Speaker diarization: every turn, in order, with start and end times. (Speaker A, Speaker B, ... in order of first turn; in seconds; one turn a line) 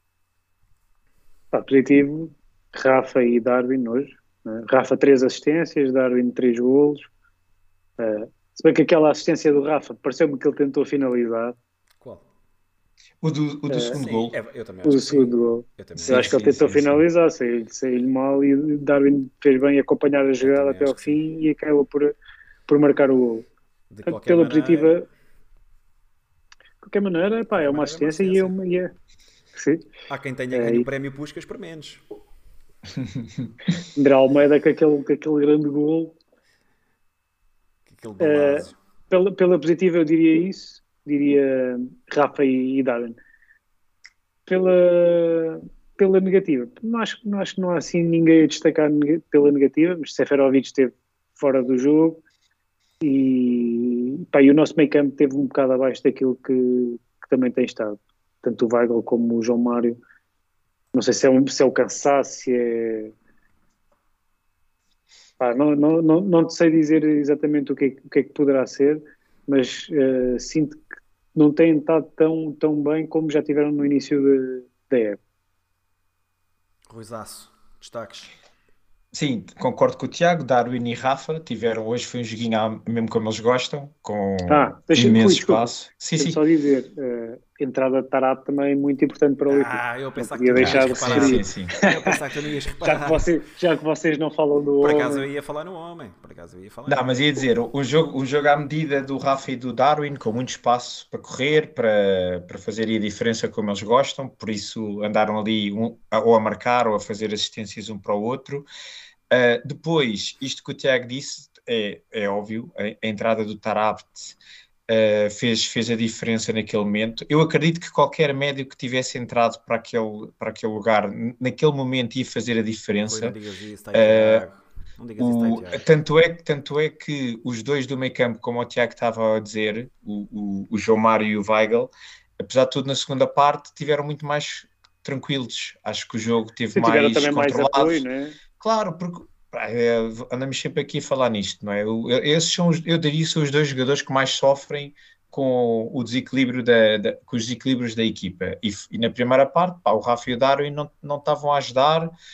Speaker A: 1.5-7.1
Speaker A: 8.0-11.6
Speaker B: 12.0-12.3
Speaker C: 13.2-14.4
Speaker A: 13.7-14.0
Speaker B: 13.9-16.4
Speaker A: 14.8-22.1
Speaker C: 15.9-17.0
Speaker B: 20.4-21.2
Speaker A: 22.7-23.5
Speaker B: 23.9-25.0
Speaker A: 24.1-25.1
Speaker A: 26.8-28.9
Speaker B: 27.5-28.6
Speaker A: 29.6-29.9
Speaker B: 30.1-32.0
Speaker A: 30.5-30.9
Speaker A: 34.0-36.1
Speaker B: 37.9-38.8
Speaker A: 38.2-43.2
Speaker A: 44.5-52.2
Speaker A: 53.0-60.0
Speaker A: 60.9-63.1
Speaker A: 65.4-70.8
Speaker A: 71.3-75.2
Speaker B: 76.9-78.3
Speaker C: 79.1-86.4
Speaker A: 84.5-91.4
Speaker B: 89.5-93.3
Speaker C: 90.6-91.7
Speaker A: 92.8-95.2
Speaker B: 94.8-97.2
Speaker C: 96.9-108.7
Speaker C: 109.3-114.4
Speaker C: 114.9-123.4
Speaker B: 123.1-125.9
Speaker C: 123.9-124.5
Speaker C: 125.2-138.1
Speaker A: 136.7-138.4
Speaker C: 138.6-152.1